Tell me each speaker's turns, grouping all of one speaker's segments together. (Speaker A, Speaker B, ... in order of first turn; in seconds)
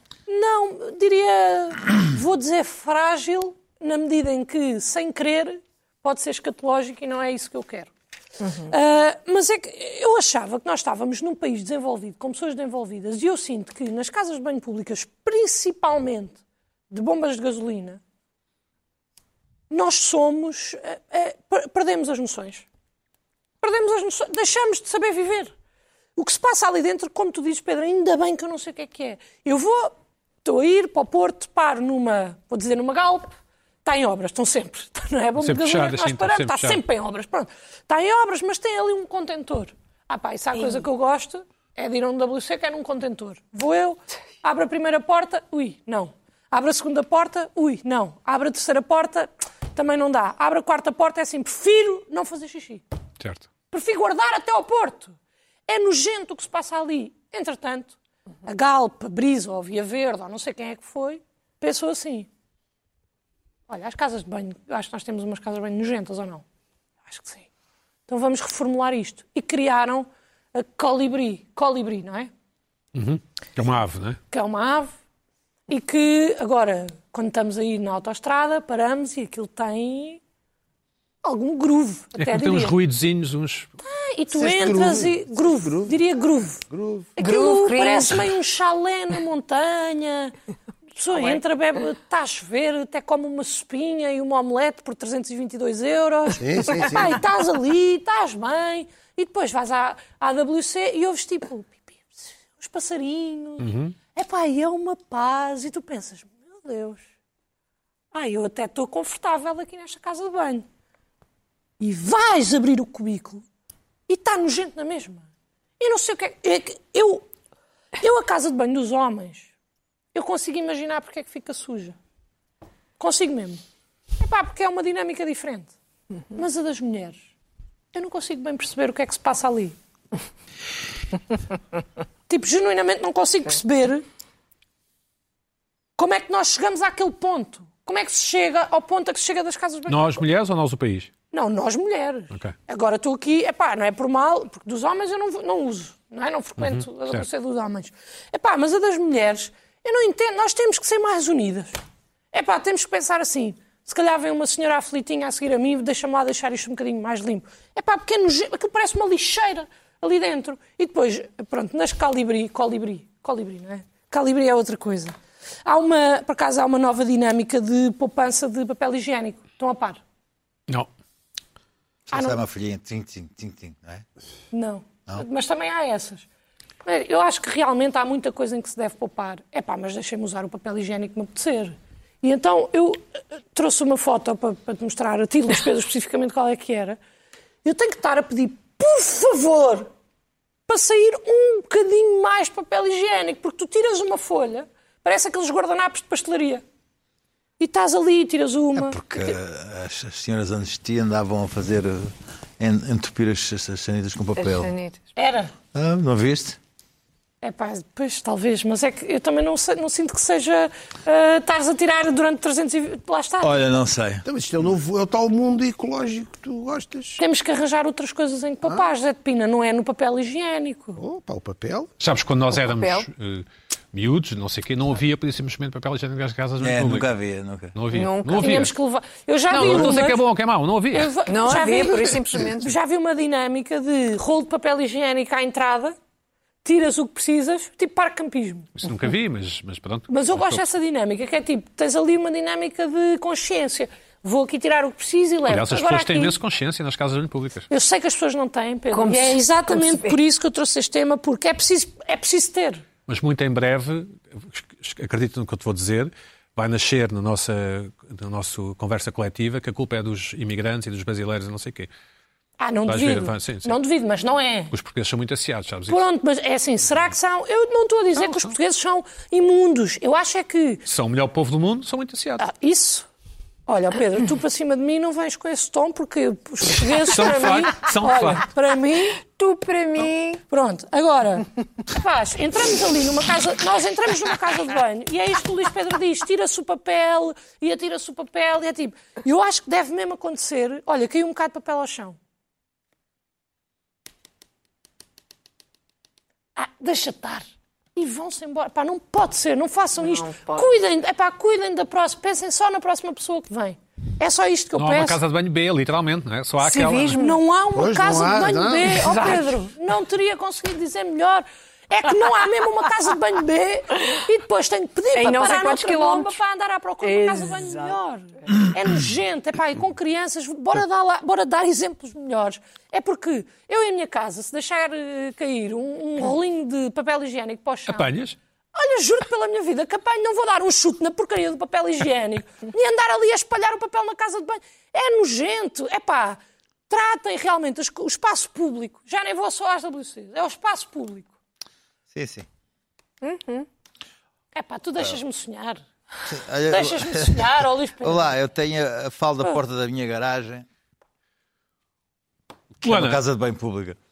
Speaker A: 0.3-7.9, 8.7-18.0, 19.7-22.6, 23.6-25.5, 26.2-33.3, 33.8-52.8, 53.7-55.1, 55.7-62.3, 63.7-66.4, 67.1-67.5, 68.1-72.3, 74.3-74.9, 75.7-80.2, 81.2-82.8, 83.8-86.6, 87.2-90.3, 91.0-107.0, 108.1-110.7, 111.8-113.4, 114.1-115.2, 115.8-117.3, 118.0-119.5, 120.1-122.0, 123.0-123.6, 124.2-125.7, 126.3-127.2, 127.9-129.8, 132.3-134.1, 136.0-140.2, 141.3-151.8, 152.3-170.0, 172.1-172.4, 174.5-176.3, 176.8-183.0, 183.5-187.0, 187.6-189.9, 190.7-196.6, 197.6-199.3, 205.2-205.5, 207.4-213.5, 217.2-221.0, 228.4-230.2, 230.9-236.0, 236.6-238.7, 240.1-246.3, 247.7-252.8, 262.6-264.7, 265.9-270.8, 272.4-273.1, 273.7-279.2, 280.5-292.2, 296.6-297.4, 297.9-305.2, 307.2-328.1, 328.7-341.3, 344.5-345.8, 346.7-348.4
Speaker B: 8.4-8.7, 87.2-88.3, 91.1-91.4, 204.4-205.1, 222.5-223.1, 227.9-228.7, 229.5-230.0, 231.3-232.7, 248.9-250.2, 279.2-280.4, 300.0-300.7, 306.6-307.4, 308.9-309.6, 315.1-316.4, 317.0-318.0, 343.2-343.7
Speaker C: 35.4-36.8, 53.2-53.5, 73.0-74.2, 82.2-83.7, 103.6-104.0, 139.9-141.1, 146.6-147.3, 222.0-227.1, 227.7-228.7, 229.5-231.1, 238.8-240.6, 245.5-247.7, 253.1-261.9, 262.9-263.8, 264.7-266.0, 268.2-268.5, 270.9-272.4, 276.8-278.5, 304.8-307.2, 327.9-328.4, 352.8-353.2
Speaker D: 84.3-86.0, 86.7-87.1, 96.4-97.2, 214.2-217.2, 221.0-221.9, 307.7-309.3
Speaker E: 172.1-174.1, 198.8-204.7, 205.7-206.6, 213.4-214.2, 226.6-227.8, 342.1-342.5, 346.3-350.7, 352.8-354.0